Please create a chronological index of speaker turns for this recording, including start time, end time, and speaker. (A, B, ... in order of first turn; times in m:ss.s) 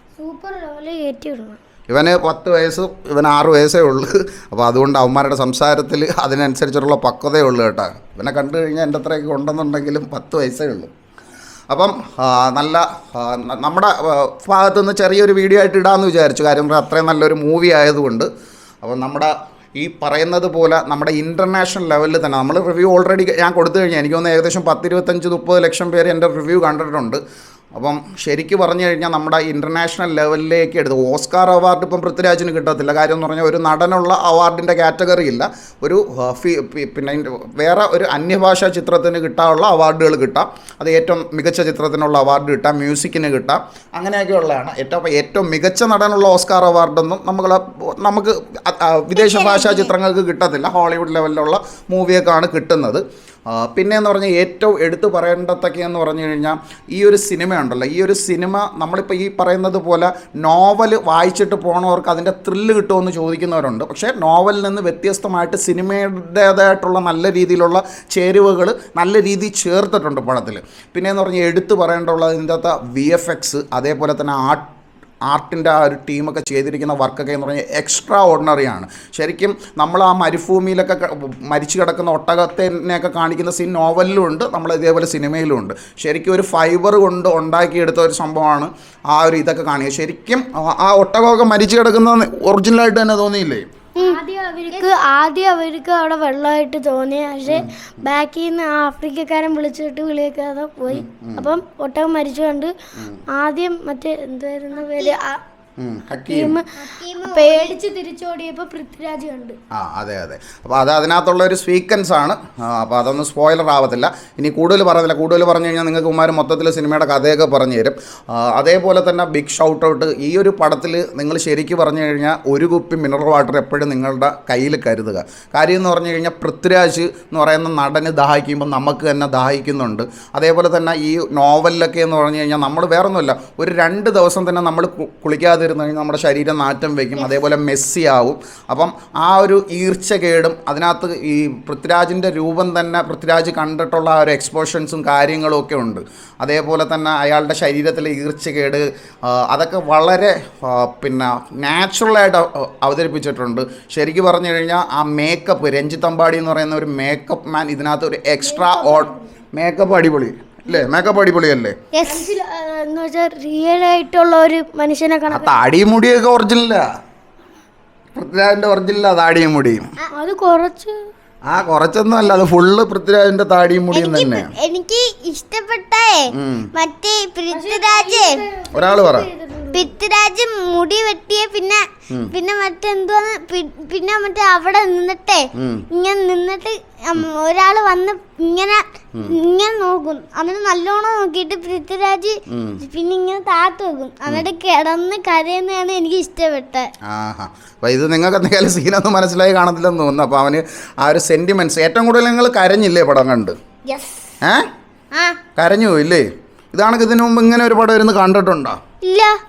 0:00.2-0:01.6 A
0:01.9-0:10.9 B
0:11.7-0:18.3 B
0:18.8-0:27.2 B
0:27.8-1:14.6 B
0:49.1-0:49.9 C
1:15.3-1:33.7 B
1:34.0-1:34.9 C
1:34.0-1:42.7 A
1:37.5-1:37.7 B
1:40.9-1:41.5 B
1:43.0-1:43.2 B
1:43.3-1:45.4 A
1:44.8-1:45.2 C
1:45.8-1:46.6 B
1:46.3-1:49.6 A
1:46.8-1:47.8 C
1:49.7-2:41.8 B
2:38.4-2:39.3 A
2:40.7-2:41.0 A
2:41.9-2:42.3 C
2:42.1-2:45.6 A
2:45.3-2:46.8 B
2:48.2-2:49.8 B
2:50.1-2:51.0 A
2:51.5-2:54.5 B
2:53.9-2:58.4 C
2:56.3-2:56.7 B
2:57.5-2:59.9 A
2:58.7-2:59.3 B
2:59.7-3:16.9 C
3:05.6-3:05.9 B
3:12.5-3:12.8 B
3:17.1-3:23.6 B
3:23.9-3:24.3 C
3:25.1-3:25.4 C
3:25.6-3:28.8 B
3:29.0-3:29.4 C